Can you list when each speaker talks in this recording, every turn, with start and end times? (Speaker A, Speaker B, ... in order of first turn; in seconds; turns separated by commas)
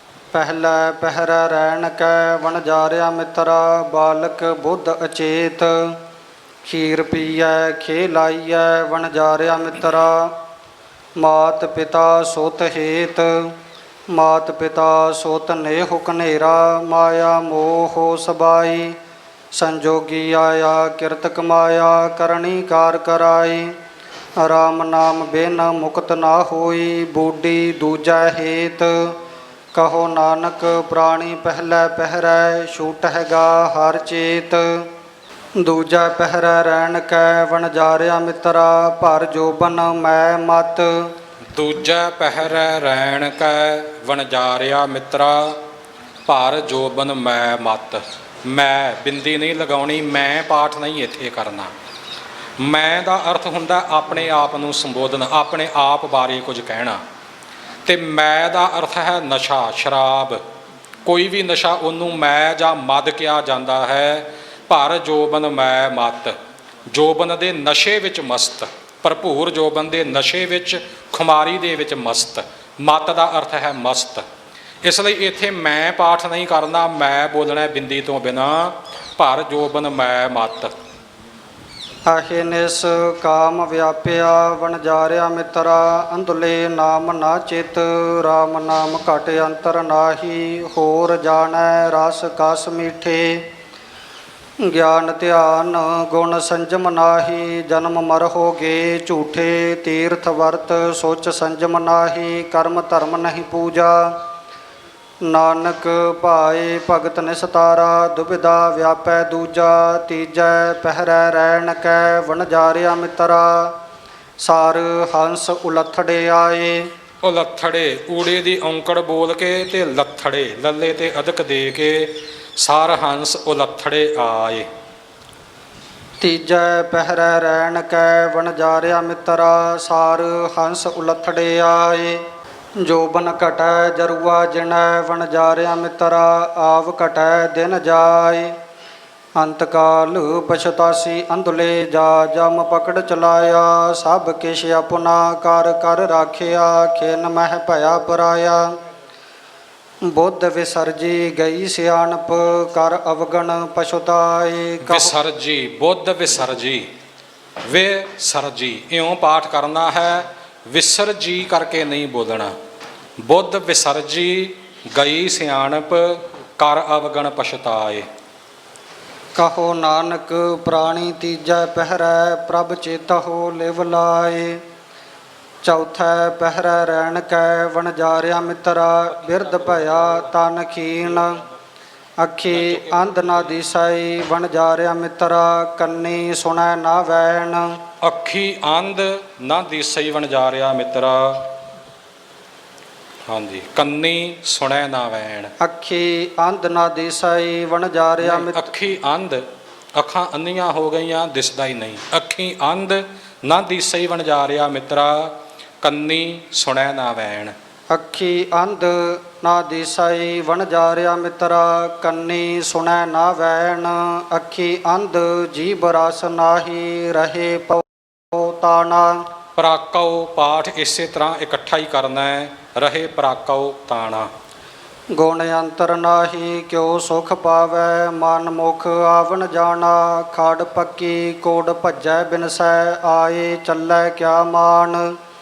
Speaker A: 0.3-6.0, Speaker A: 6.6-10.3, Speaker A: 11.2-13.5, Speaker A: 14.1-19.0, Speaker A: 19.5-23.7, Speaker A: 24.4-29.1, Speaker A: 29.7-34.6, Speaker A: 35.6-40.9, Speaker B: 41.5-45.6, Speaker B: 46.3-51.7, Speaker B: 52.6-57.0, Speaker B: 57.9-60.4, Speaker B: 61.0-66.3, Speaker B: 66.9-74.2, Speaker B: 74.8-80.7, Speaker A: 82.1-93.5, Speaker A: 94.6-104.1, Speaker A: 105.3-113.7, Speaker A: 114.4-116.9, Speaker B: 117.2-124.7, Speaker A: 126.2-132.2, Speaker A: 132.8-138.5, Speaker A: 139.4-148.7, Speaker A: 150.1-155.1, Speaker B: 154.8-156.9, Speaker B: 157.7-162.5, Speaker B: 163.2-168.1, Speaker A: 169.4-174.6, Speaker A: 175.6-181.4, Speaker B: 179.5-180.1, Speaker A: 182.2-187.8, Speaker B: 182.5-183.5, Speaker B: 188.0-191.5, Speaker B: 193.3-195.5, Speaker A: 195.6-198.7, Speaker B: 198.2-199.4, Speaker B: 200.0-207.5, Speaker A: 207.9-219.2, Speaker B: 219.6-224.3, Speaker A: 225.2-235.1